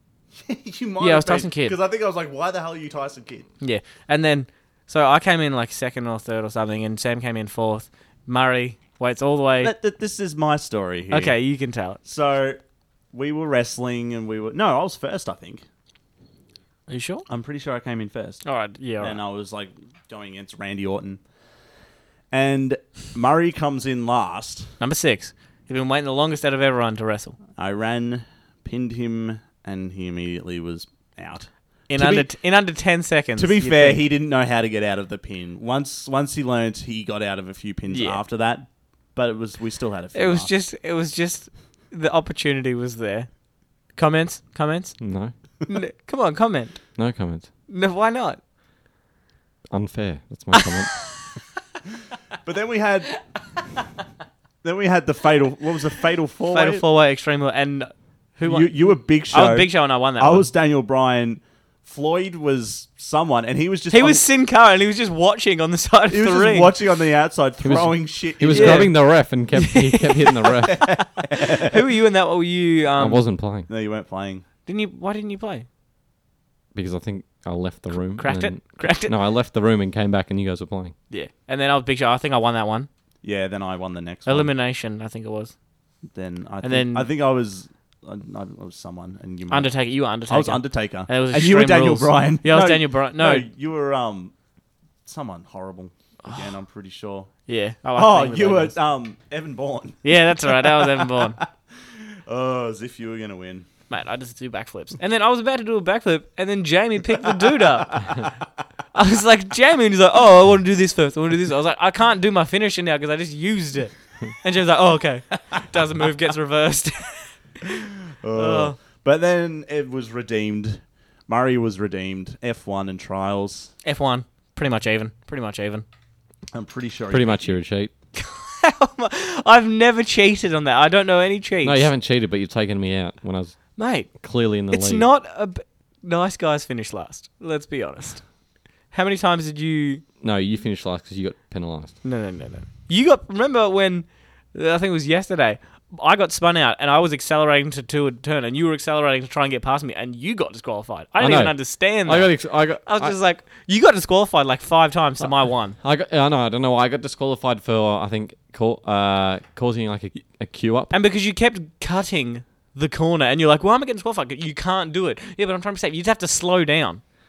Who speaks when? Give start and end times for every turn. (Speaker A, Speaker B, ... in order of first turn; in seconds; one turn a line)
Speaker A: 0.3-3.5
Speaker B: 1.0-1.8
Speaker B: 3.6-9.8
Speaker A: 9.6-11.4
Speaker B: 11.1-12.0
Speaker A: 12.0-12.6
Speaker A: 13.1-15.6
Speaker B: 16.9-17.3
Speaker A: 17.3-18.4
Speaker B: 18.4-19.2
Speaker A: 19.0-21.2
Speaker A: 22.3-24.8
Speaker B: 24.8-27.4
Speaker A: 27.6-32.3
Speaker B: 31.9-34.1
Speaker A: 33.4-40.5
Speaker B: 37.9-38.2
Speaker B: 40.1-43.3
Speaker B: 43.9-45.0
Speaker C: 45.0-45.3
Speaker B: 45.7-46.9
Speaker C: 47.0-47.5
Speaker B: 47.7-48.4
Speaker C: 49.7-51.0
Speaker A: 52.4-53.2
Speaker A: 54.6-56.8
Speaker B: 56.5-60.5
Speaker A: 58.5-64.2
Speaker B: 63.9-66.7
Speaker A: 66.1-68.9
Speaker C: 67.6-71.0
Speaker B: 68.5-73.2
Speaker A: 70.7-71.8
Speaker C: 73.0-73.7
Speaker A: 73.7-74.5
Speaker B: 74.7-75.7
Speaker C: 76.8-80.9
Speaker B: 78.2-79.1
Speaker B: 81.1-82.9
Speaker A: 83.2-84.5
Speaker B: 84.3-85.5
Speaker A: 86.1-89.7
Speaker B: 86.6-87.1
Speaker B: 89.5-93.5
Speaker A: 90.3-94.3
Speaker A: 95.0-97.3
Speaker B: 96.2-96.5
Speaker B: 97.5-98.8
Speaker A: 98.0-101.5
Speaker B: 100.0-101.4
Speaker A: 102.3-103.7
Speaker B: 103.9-108.2
Speaker A: 107.5-108.3
Speaker B: 108.9-117.4
Speaker A: 118.2-123.7
Speaker B: 118.3-118.8
Speaker B: 123.8-125.8
Speaker A: 126.5-127.6
Speaker C: 127.1-127.9
Speaker B: 128.2-131.9
Speaker C: 131.6-135.1
Speaker B: 133.8-138.2
Speaker B: 138.9-140.0
Speaker C: 140.2-142.0
Speaker B: 142.0-155.8
Speaker C: 151.2-153.2
Speaker C: 155.8-160.9
Speaker B: 160.9-167.0